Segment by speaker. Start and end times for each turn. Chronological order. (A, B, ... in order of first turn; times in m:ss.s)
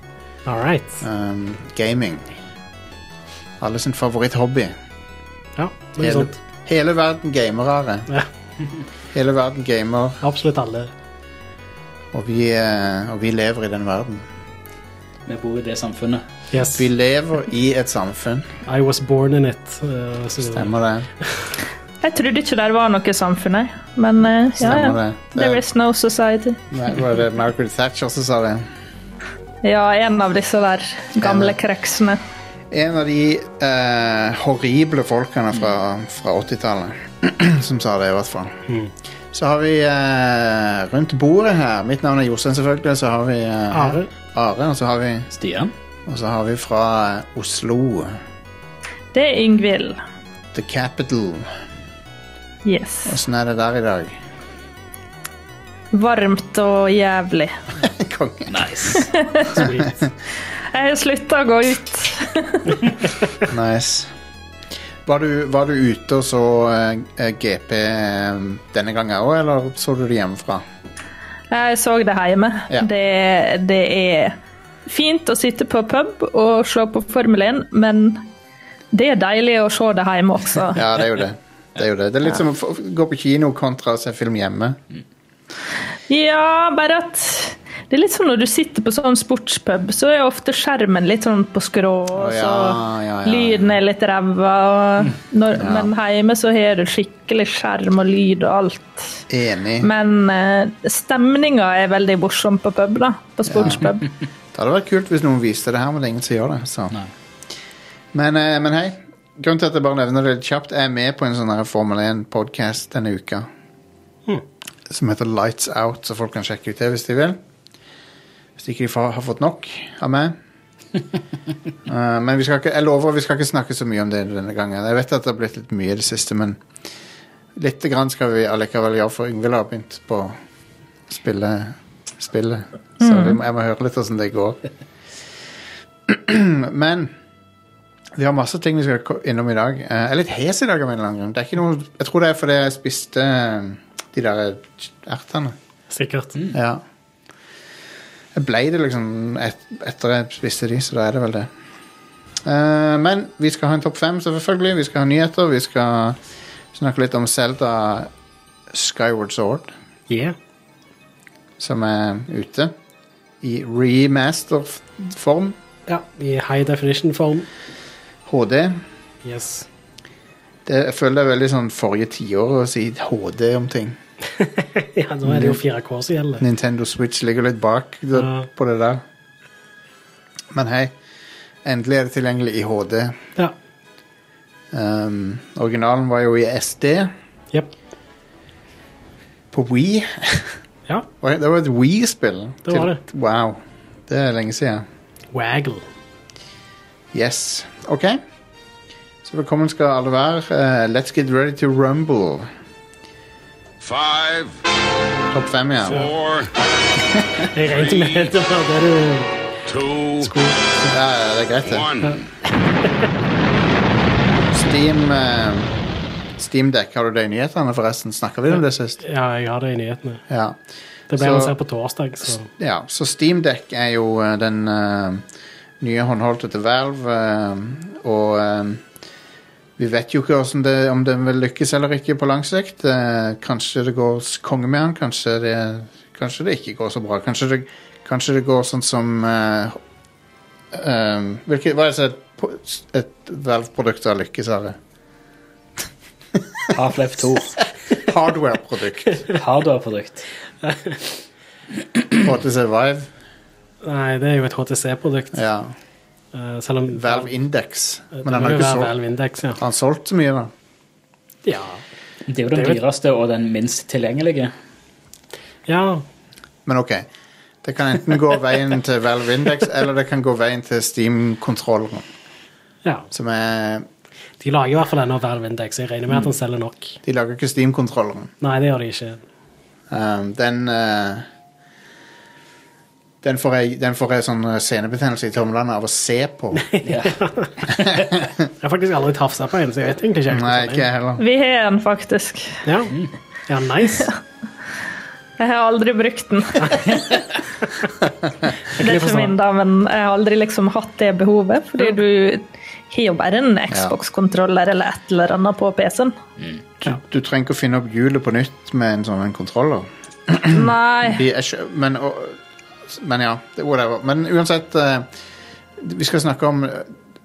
0:00.5-0:01.0 A
0:01.0-0:02.3 B
0:03.6-0:04.7 B
0:05.6-0:06.4 A
0:06.0-0:08.1 B
0:09.1-0:10.2 B
0:10.2-0:10.9 A
0:12.1-0:14.2 B
0:15.3-0:16.2 C
0:16.5-0:16.8 A
0:16.7-0:18.5 B
0:18.7-0:20.7 A
0:20.4-0:21.1 B
0:22.0-0:26.6 D
0:24.6-0:25.6 B
0:26.7-0:28.7 B
0:29.6-0:32.2 D
0:31.2-0:31.6 B
0:32.7-0:38.6 B
0:39.3-0:45.3 B
0:43.7-0:44.1 A
0:45.3-0:45.7 C
0:46.1-0:48.2 B
0:49.1-0:50.0 D
0:50.5-0:51.5 B
0:52.6-0:53.2 D
0:53.1-0:54.2 B
0:55.9-0:57.6 D
0:57.8-0:58.6 B
0:58.5-0:59.1 C
0:58.9-0:59.6 D
0:59.5-1:00.0 A
0:59.6-1:00.1 B
1:00.7-1:03.0 D
1:03.4-1:04.1 B
1:05.1-1:10.6 B
1:11.5-1:18.2 D
1:18.9-1:20.8 D
1:20.7-1:24.8 B
1:26.1-1:39.2 D
1:32.2-1:33.8 B
1:35.6-1:35.9 B
1:39.3-1:39.9 B
1:39.8-1:44.1 D
1:43.5-1:43.9 B
1:44.5-1:47.0 B
1:48.1-1:53.5 B
1:54.9-1:57.4 B
1:58.6-2:00.4 B
2:01.9-2:06.6 B
2:07.6-2:10.4 B
2:11.1-2:14.6 B
2:13.0-2:13.4 D
2:16.1-2:17.1 B
2:18.2-2:25.6 B
2:25.9-2:26.4 A
2:26.5-2:26.8 B
2:28.4-2:31.5 B
2:32.4-2:36.2 B
2:36.7-2:38.1 B
2:38.7-2:39.7 B
2:40.1-2:40.4 A
2:41.6-2:42.7 B
2:43.4-2:45.6 B
2:45.9-2:47.5 A
2:48.3-2:48.8 B
2:49.2-2:49.7 A
2:50.7-2:54.0 B
2:54.4-2:56.4 A
2:55.2-2:55.6 B
2:56.4-2:59.0 B
2:58.2-2:58.5 A
3:00.5-3:00.9 B
3:01.6-3:03.2 B
3:04.7-3:07.1 B
3:09.5-3:10.6 B
3:11.2-3:14.8 B
3:12.7-3:13.0 A
3:15.3-3:15.8 A
3:17.1-3:18.2 B
3:19.2-3:22.5 B
3:23.8-3:24.6 E
3:25.3-3:26.0 B
3:26.0-3:26.5 E
3:27.5-3:29.3 A
3:29.7-3:30.2 E
3:30.2-3:31.0 A
3:30.9-3:31.9 B
3:31.7-3:32.2 E
3:34.5-3:35.7 B
3:36.4-3:39.0 B
3:39.0-3:40.2 A
3:40.3-3:40.6 B
3:41.1-3:42.5 A
3:41.2-3:41.6 B
3:42.5-3:45.2 B
3:45.8-3:48.8 B
3:49.8-3:59.8 B
4:00.7-4:04.8 B
4:06.7-4:07.6 C
4:07.9-4:09.2 B
4:09.3-4:10.3 C
4:10.6-4:11.0 A
4:12.2-4:13.1 B
4:13.8-4:15.4 A
4:15.3-4:15.8 B
4:16.3-4:17.3 A
4:17.0-4:18.9 B
4:18.2-4:19.6 A
4:19.6-4:20.5 B
4:21.4-4:21.8 A
4:22.3-4:24.5 C
4:25.7-4:26.0 A
4:26.7-4:27.1 B
4:27.6-4:32.1 B
4:33.1-4:33.9 B
4:34.4-4:37.0 A
4:37.0-4:38.3 B
4:38.4-4:39.2 A
4:39.9-4:41.3 B
4:43.2-4:46.7 B
4:46.6-4:47.7 A
4:46.8-4:47.2 C
4:47.7-4:48.5 B
4:48.6-4:50.9 A
4:50.3-4:51.2 B
4:51.2-4:52.6 D
4:52.6-4:53.0 A
4:53.5-4:54.1 A
4:55.4-4:57.2 D
4:58.8-4:59.4 A
4:58.8-5:06.2 D
5:03.7-5:04.0 B
5:06.8-5:12.4 B
5:10.5-5:11.2 D
5:12.9-5:15.1 B
5:15.8-5:16.9 B